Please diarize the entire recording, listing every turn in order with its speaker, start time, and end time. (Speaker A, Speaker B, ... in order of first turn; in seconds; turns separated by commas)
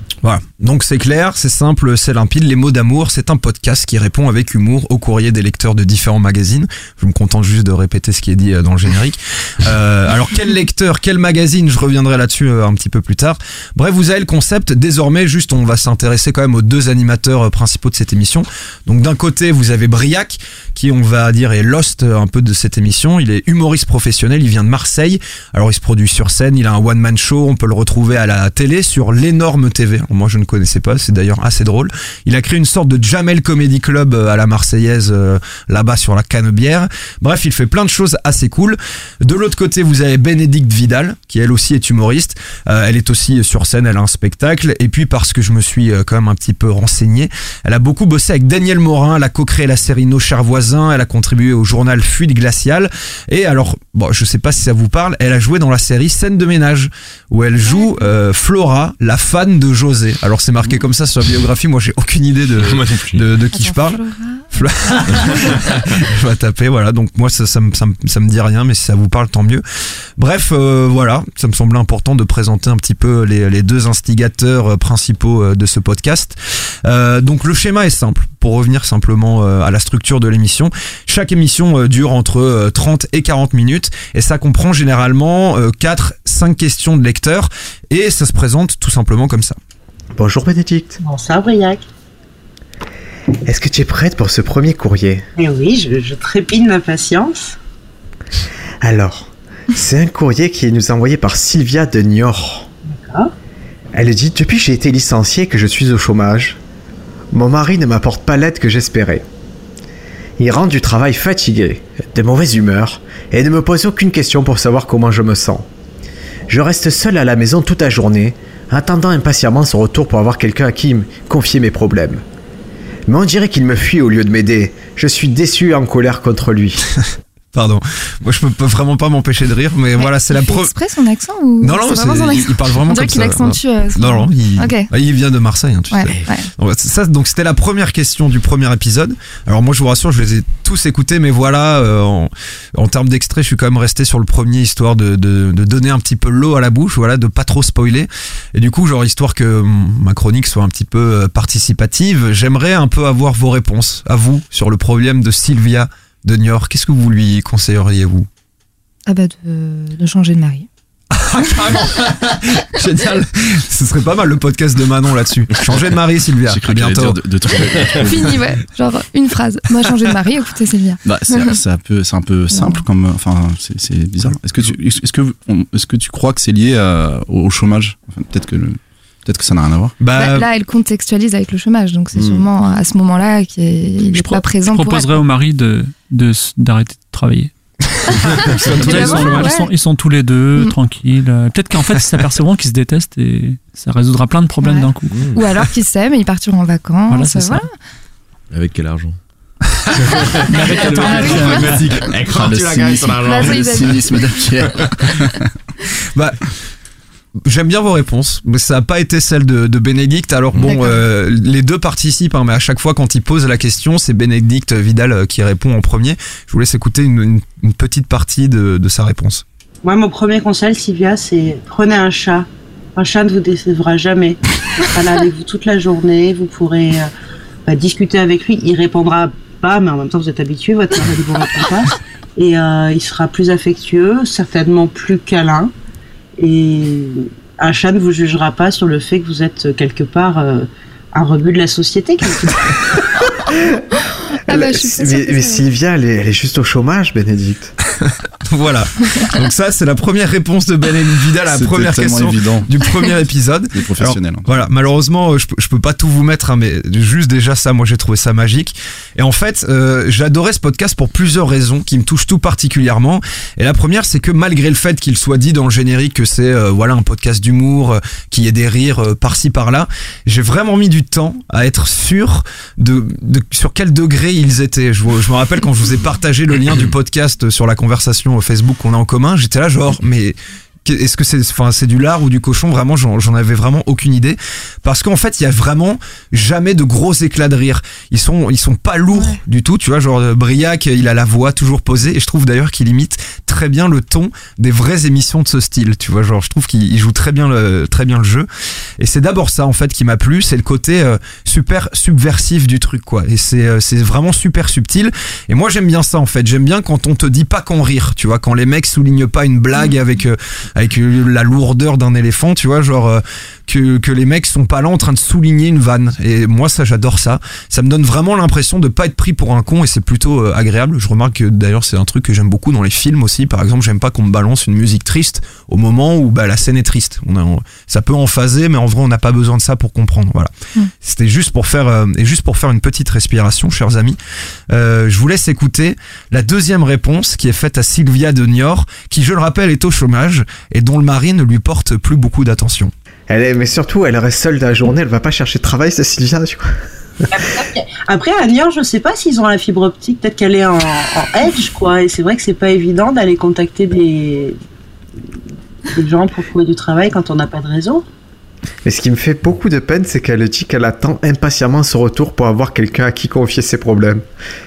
Speaker A: 0.2-64.0, Speaker B: 62.6-63.2, Speaker C: 63.5-65.6, Speaker A: 64.5-69.6, Speaker A: 70.2-89.6, Speaker D: 90.2-91.0, Speaker E: 91.0-91.8, Speaker D: 93.5-95.2, Speaker E: 95.4-97.6, Speaker D: 98.8-102.7, Speaker E: 103.0-103.3, Speaker D: 104.0-106.6, Speaker D: 107.3-109.2, Speaker D: 110.4-115.7, Speaker D: 116.5-122.2, Speaker D: 123.1-126.8, Speaker A: 127.5-130.7, Speaker C: 130.0-134.9, Speaker A: 131.6-158.3, Speaker C: 135.9-136.5, Speaker C: 159.1-160.7, Speaker A: 161.1-167.2, Speaker F: 166.5-168.4, Speaker C: 167.7-171.6, Speaker F: 171.1-180.0, Speaker C: 172.5-172.8, Speaker A: 180.0-180.5, Speaker C: 180.1-185.2, Speaker G: 184.1-187.5, Speaker A: 188.5-189.2, Speaker C: 188.7-189.7, Speaker G: 188.7-195.2, Speaker C: 194.6-197.7, Speaker B: 195.1-195.4, Speaker G: 197.1-197.7, Speaker B: 198.5-199.2, Speaker C: 200.3-201.8, Speaker G: 200.5-201.7, Speaker B: 200.6-204.1, Speaker F: 202.3-205.4, Speaker C: 203.2-204.5, Speaker A: 207.4-219.4, Speaker C: 210.6-211.0, Speaker E: 219.8-227.1, Speaker E: 227.7-235.7, Speaker E: 236.4-242.7, Speaker C: 244.5-245.7, Speaker D: 244.5-247.7, Speaker A: 248.0-298.5, Speaker F: 251.5-252.7, Speaker F: 253.7-254.5, Speaker A: 299.0-330.5, Speaker A: 331.0-334.2, Speaker A: 334.7-342.9, Speaker D: 343.3-346.8, Speaker E: 347.3-354.6, Speaker D: 347.4-347.6, Speaker E: 355.9-358.1, Speaker D: 358.9-364.2